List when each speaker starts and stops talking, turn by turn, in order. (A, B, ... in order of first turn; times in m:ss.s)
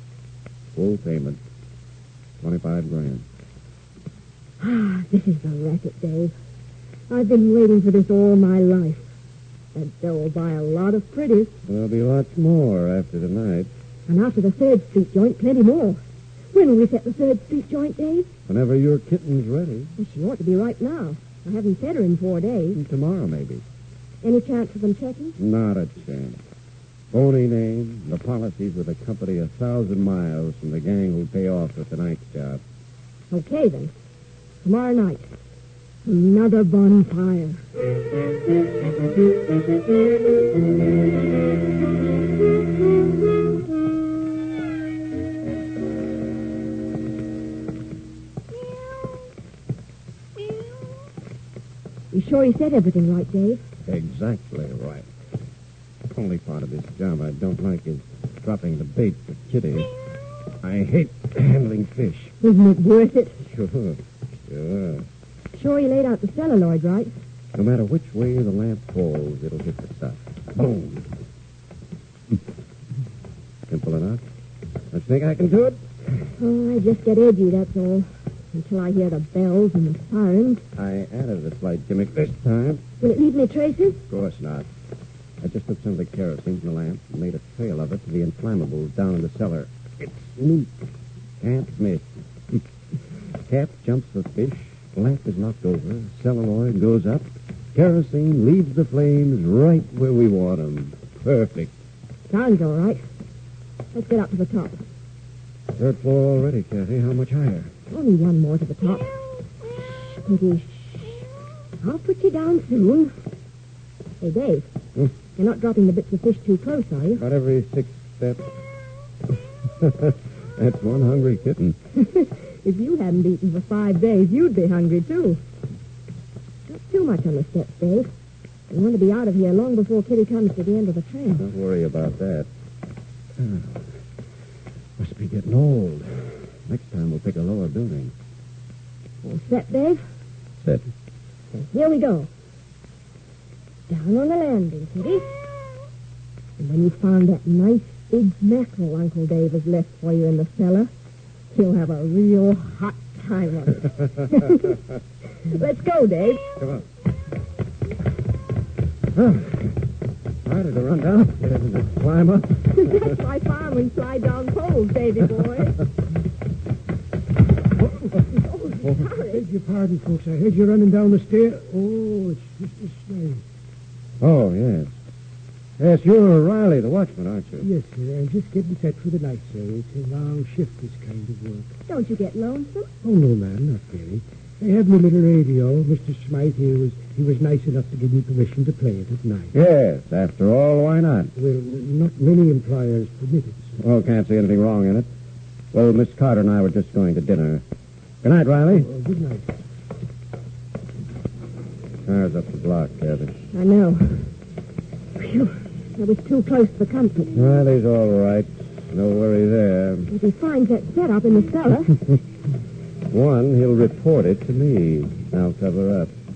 0:00.7-0:01.4 A
0:02.4-0:03.2 A
0:04.6-0:06.3 B
0:07.1-0:09.0 B
0:09.7-0:11.5 B
0:11.6-0:13.7 A
0:14.1-0:16.0 B
0:16.5-0:18.3 B
0:18.5-0:19.9 A
0:20.0-0:22.8 B
0:22.7-0:23.6 A
0:24.2-0:25.4 B
0:25.4-0:26.4 A
0:27.1-0:32.6 A
0:33.3-0:33.9 B
0:34.6-0:35.3 B
0:36.0-0:37.6 B
0:52.1-0:53.6 B
0:53.8-0:55.0 A
0:56.1-0:59.9 A
1:00.6-1:02.3 A
1:02.4-1:03.4 B
1:03.4-1:05.0 A
1:05.5-1:07.1 B
1:07.5-1:11.1 A
1:13.7-1:14.2 A
1:14.9-1:15.8 A
1:16.4-1:20.6 B
1:20.7-1:22.8 A
1:23.0-1:24.0 B
1:24.1-1:24.7 A
1:25.4-1:30.9 A
1:31.4-1:32.6 A
1:33.5-1:41.7 A
1:42.3-1:43.1 B
1:43.9-1:44.8 B
1:45.7-1:47.7 A
1:47.9-1:49.1 B
1:49.8-1:51.2 B
1:51.8-1:53.1 B
1:54.2-1:54.7 B
1:55.4-1:57.2 B
1:57.2-1:58.5 A
1:59.8-2:01.8 A
2:02.0-2:05.4 B
2:06.7-2:08.1 B
2:08.7-2:11.4 B
2:11.4-2:12.5 A
2:13.4-2:13.9 A
2:15.0-2:18.1 A
2:19.2-2:20.0 B
2:21.5-2:22.3 B
2:23.9-2:25.4 B
2:26.6-2:30.9 B
2:31.5-2:34.8 B
2:35.5-2:36.4 B
2:39.1-2:39.7 A
2:40.4-2:43.1 A
2:42.7-2:45.8 B
2:48.3-2:49.4 B
2:49.2-2:53.4 C
2:54.2-2:54.9 A
2:55.8-2:57.7 A
2:57.6-3:01.7 C
3:01.9-3:02.9 B
3:03.0-3:09.5 C
3:09.5-3:11.3 A
3:11.4-3:13.7 C
3:13.8-3:15.1 A
3:15.7-3:17.6 A
3:18.2-3:18.9 A
3:18.7-3:19.5 C
3:22.0-3:23.3 A
3:23.5-3:24.3 B
3:25.2-3:27.3 B
3:27.3-3:30.1 A
3:30.1-3:32.0 B
3:33.1-3:36.1 A